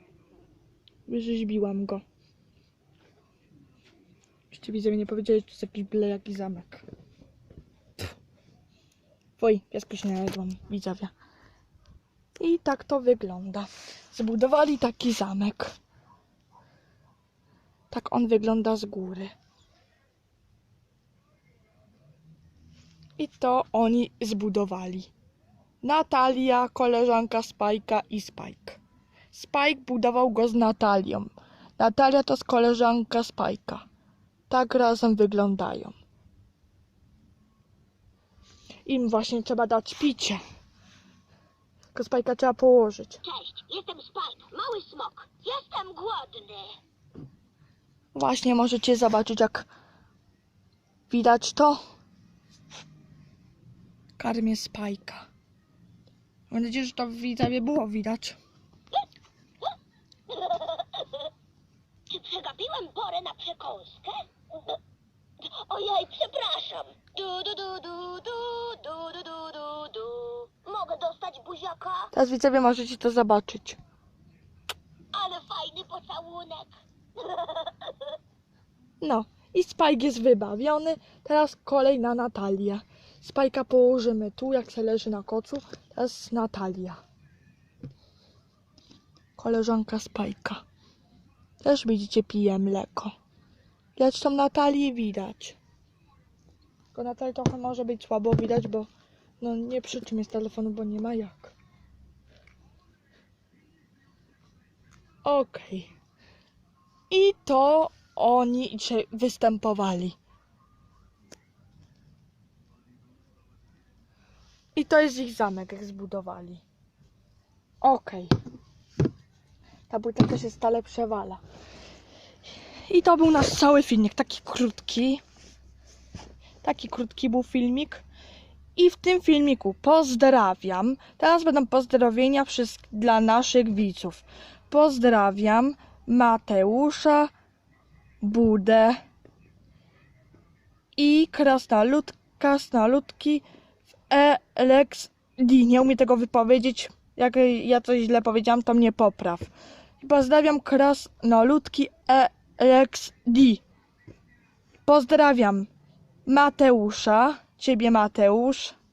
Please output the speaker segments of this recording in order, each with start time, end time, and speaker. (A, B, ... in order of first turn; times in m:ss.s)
0:01.1-0:02.0 A
0:04.5-0:06.8 A
0:09.4-0:11.1 A
0:12.4-0:15.8 A
0:17.9-0:19.3 A
0:23.2-0:25.1 A
0:25.8-0:28.8 A
0:29.3-0:33.8 A
0:34.5-0:36.0 A
0:38.9-0:40.4 A
0:41.9-0:43.2 A
0:43.2-0:46.8 B
0:48.1-0:49.7 A
0:51.1-0:51.8 A
0:54.2-0:55.3 A
0:56.5-0:58.4 A
1:00.3-1:01.3 B
1:02.1-1:04.8 B
1:05.4-1:12.1 B
1:12.1-1:13.8 A
1:15.1-1:18.1 B
1:19.0-1:27.0 A
1:29.4-1:30.6 A
1:31.6-1:33.1 A
1:34.0-1:35.6 A
1:36.9-1:38.9 A
1:39.4-1:41.6 A
1:45.2-1:45.9 A
1:47.1-1:50.2 A
1:54.8-1:56.6 A
1:57.8-1:58.3 A
1:59.9-2:01.4 A
2:02.8-2:05.2 A
2:06.6-2:08.0 A
2:08.8-2:17.3 A
2:18.2-2:19.0 A
2:21.0-2:23.4 A
2:24.1-2:33.6 A
2:34.8-2:35.7 A
2:36.2-2:38.8 A